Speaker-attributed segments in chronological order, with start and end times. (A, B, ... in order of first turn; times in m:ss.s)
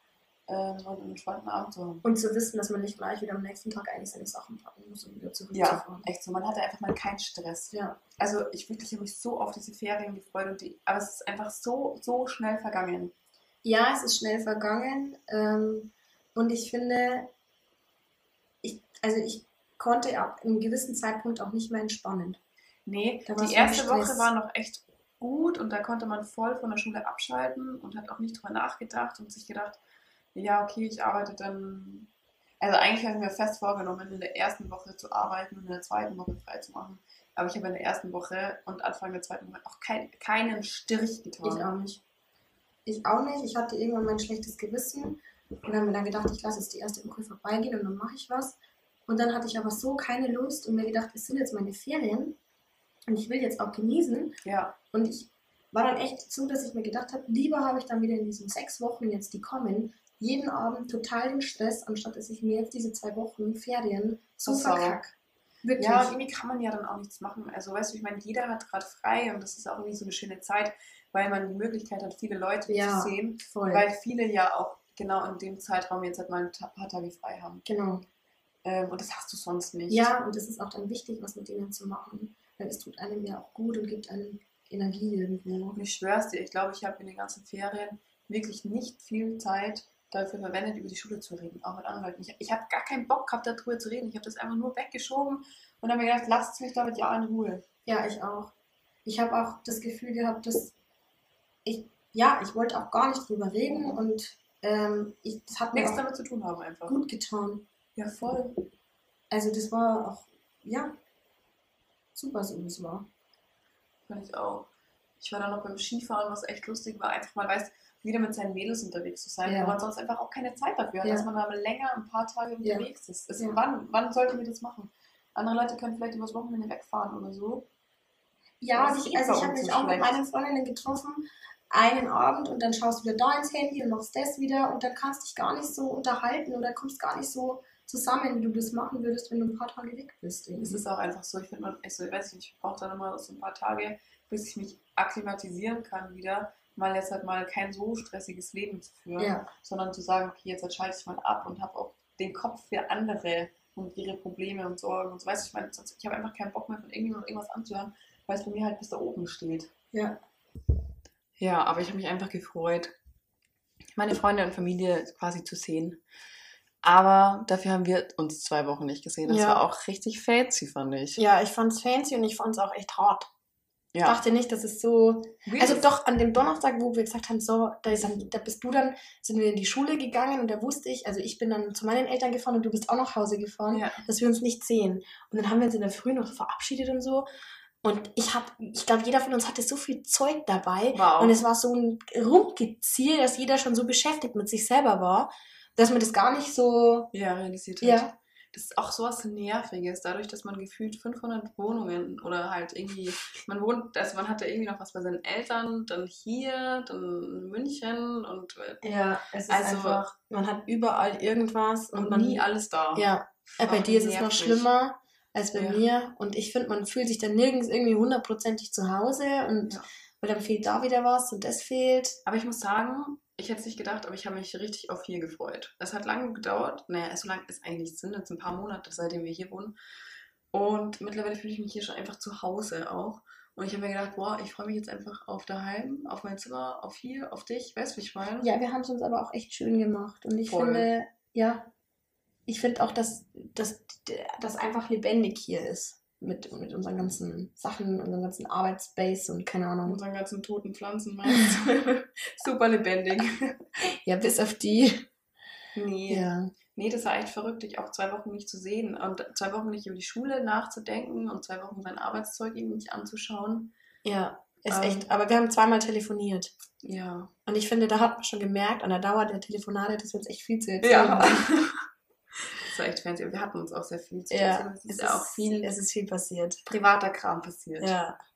0:00.5-0:02.0 A
0:02.0-0:06.0 B
0:05.5-0:13.1 A
0:07.7-0:08.0 B
0:13.6-0:17.3 B
0:18.6-0:22.4 B
0:22.8-0:29.8 A
0:23.2-0:24.3 B
0:30.3-0:32.1 A
0:32.6-0:41.7 A
0:41.4-0:42.0 B
0:42.8-0:52.4 B
0:53.1-0:54.4 B
0:54.4-0:54.8 A
0:54.9-1:05.1 B
1:04.4-1:05.0 A
1:05.6-1:06.2 B
1:05.8-1:17.6 A
1:12.7-1:13.9 B
1:17.6-1:18.0 B
1:18.6-1:20.1 A
1:19.9-1:25.8 B
1:25.7-1:37.6 A
1:37.8-1:38.5 B
1:39.0-1:40.7 B
1:41.6-1:46.0 B
1:43.7-1:44.0 A
1:45.7-1:47.0 A
1:46.9-1:47.6 B
1:48.0-1:48.6 A
1:49.3-1:51.0 B
1:52.1-1:53.0 B
1:54.1-1:54.7 A
1:55.2-2:07.7 A
1:59.4-1:59.8 B
2:08.6-2:20.8 B
2:08.7-2:10.2 A
2:20.6-2:39.7 A
2:29.2-2:29.5 B
2:39.9-2:40.2 B
2:41.4-2:42.9 A
2:44.0-2:46.0 A
2:46.8-2:51.2 A
2:49.3-2:49.6 B
2:51.2-2:53.3 B
2:53.9-2:54.2 A
2:54.0-3:07.3 B
2:55.4-2:55.8 A
3:03.7-3:04.0 A
3:07.8-3:17.1 B
3:10.9-3:11.4 A
3:17.1-3:28.8 A
3:17.8-3:18.1 B
3:28.8-3:42.2 B
3:29.5-3:30.1 A
3:31.9-3:34.7 A
3:35.5-3:35.8 A
3:42.2-3:49.7 A
3:50.5-3:58.5 A
3:58.4-4:01.7 B
4:00.5-4:00.9 A
4:02.5-4:10.0 B
4:09.8-4:13.6 A
4:14.0-4:15.1 B
4:15.7-4:23.7 A
4:16.1-4:16.5 B
4:24.0-4:26.5 B
4:24.7-4:25.1 A
4:26.8-4:27.3 A
4:27.4-4:31.5 B
4:30.8-4:31.8 A
4:32.6-4:35.7 A
4:34.3-4:36.6 B
4:36.6-4:37.9 A
4:37.8-4:38.2 B